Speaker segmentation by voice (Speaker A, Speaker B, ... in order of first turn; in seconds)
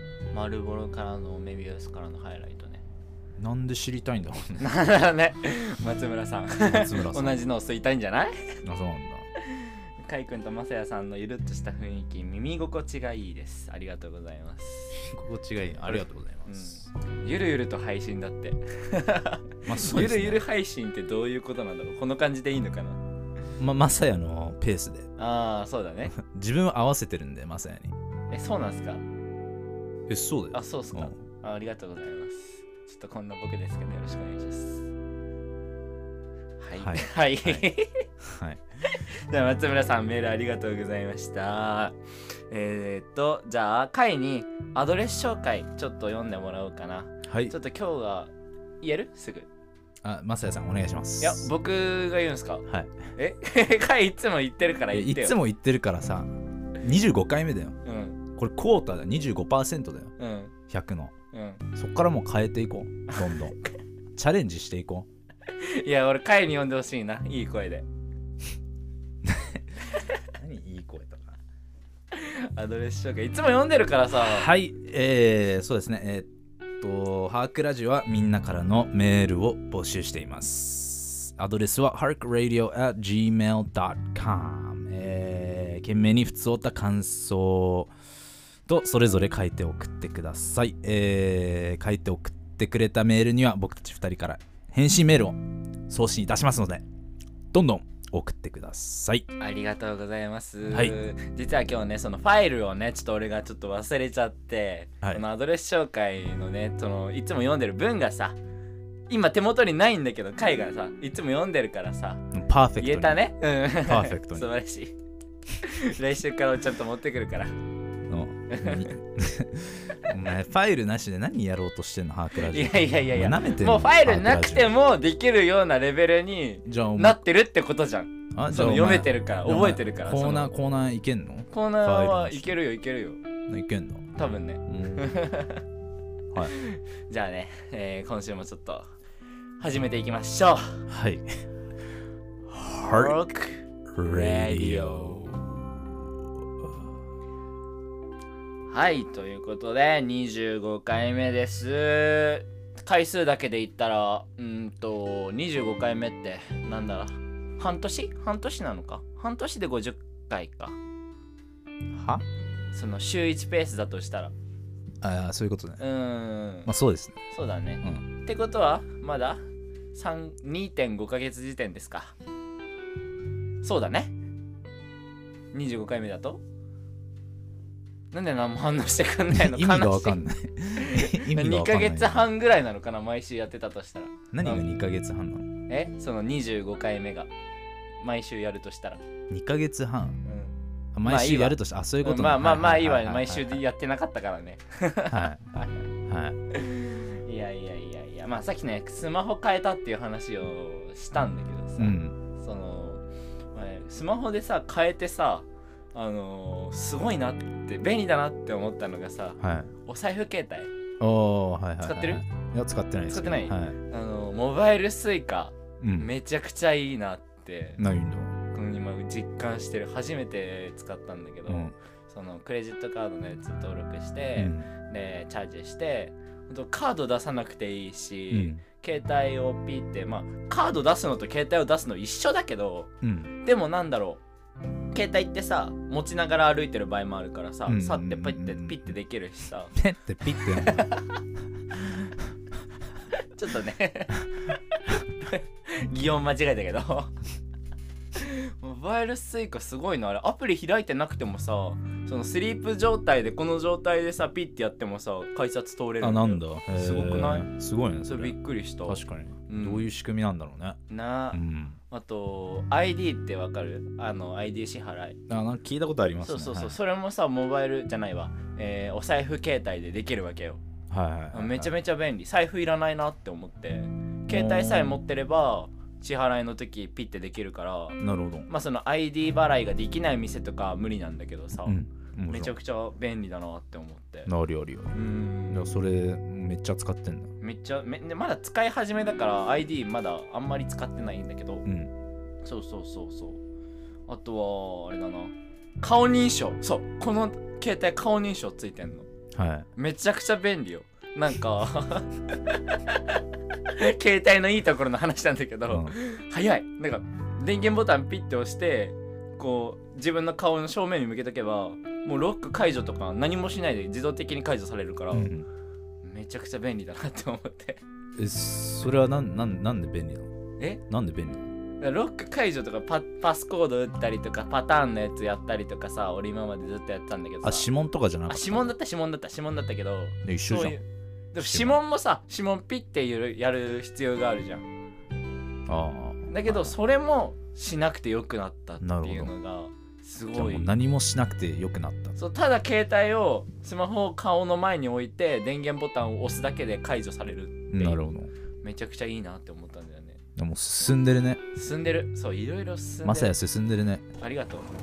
Speaker A: 0.3-2.8, 4.6-8.6, 9.4-15.0, 15.9-23.0, 25.2-26.1, 28.3-29.0, 30.5-34.9, 36.6-38.0, 38.8-42.0, 42.5-49.5, 51.2-52.6, 53.1-55.4, 57.8-58.2, 60.2-60.5, 61.3-61.6, 63.1-63.5, 65.5-67.8, 72.1-74.5, 99.4-108.4, 109.1-112.2, 112.8-114.9, 115.6-117.5, 118.5-118.9, 122.4-130.5, 131.5-133.2, 134.2-135.6, 136.4-138.9, 139.6-140.8, 142.8-145.3, 148.7-160.8, 162.7-164.3, 165.8-166.7, 167.3-169.4, 169.9-172.1, 173.6-174.1, 175.5-176.4, 178.1-180.2, 180.8-184.7, 185.7-187.3, 188.0-189.0, 190.2-195.9, 196.5-210.7, 211.8-212.2, 213.1-217.8, 218.5-232.9, 233.4-234.2, 234.9-239.7, 240.3-241.2, 243.2-247.1, 248.1-257.5, 258.1-259.9, 260.9-265.2, 266.2-270.6, 271.3-281.8, 282.3-284.3, 284.9-285.8, 287.4-291.6, 292.4-293.4, 294.1-299.1, 299.8-303.2, 303.7-315.3, 316.0-317.8, 321.8-327.7, 328.3-334.6, 336.3-340.7, 342.2-348.1, 348.6-350.2, 351.5-353.3, 354.2-354.7
Speaker B: 3.4-4.6, 6.6-7.4, 8.6-9.3, 14.9-16.9, 19.6-20.4, 23.6-25.1, 26.1-27.9, 30.1-31.2, 36.8-37.7, 38.2-38.6, 47.3-47.5, 50.0-51.5, 52.7-53.0, 54.9-57.8, 58.3-60.1, 60.7-61.1, 61.7-63.5, 64.1-65.1, 69.2-69.8, 70.3-71.4, 74.1-76.3, 76.8-87.9, 88.7-96.8, 97.5-99.3, 100.7-101.0, 112.3-113.2, 113.8-114.5, 118.1-124.7, 126.6-127.2, 128.3-132.6, 133.5-134.1, 134.7-135.1, 140.9-141.4, 142.5-143.2, 143.9-146.7, 161.9-162.2, 165.0-165.8, 166.6-167.2, 179.3-182.3, 184.3-185.5, 189.3-190.2, 190.9-193.6, 195.1-195.5, 196.1-196.4, 201.8-202.2, 209.4-209.7, 211.0-213.8, 215.8-216.1, 217.8-218.3, 221.5-221.7, 224.3-224.7, 228.3-228.6, 233.0-233.3, 237.7-238.9, 239.7-240.9, 241.7-242.1, 256.0-260.8, 261.3-261.8, 265.3-266.8, 270.9-271.7, 274.3-275.0, 278.0-278.5, 281.6-282.6, 284.2-285.0, 285.5-287.3, 291.6-291.9, 299.3-299.7, 305.7-305.9, 315.1-315.5, 318.2-320.3, 320.9-321.5, 327.4-328.7, 330.2-330.8, 331.4-331.8, 335.7-336.7, 338.8-339.3, 340.3-342.1, 347.7-348.3, 350.4-351.4, 353.0-354.1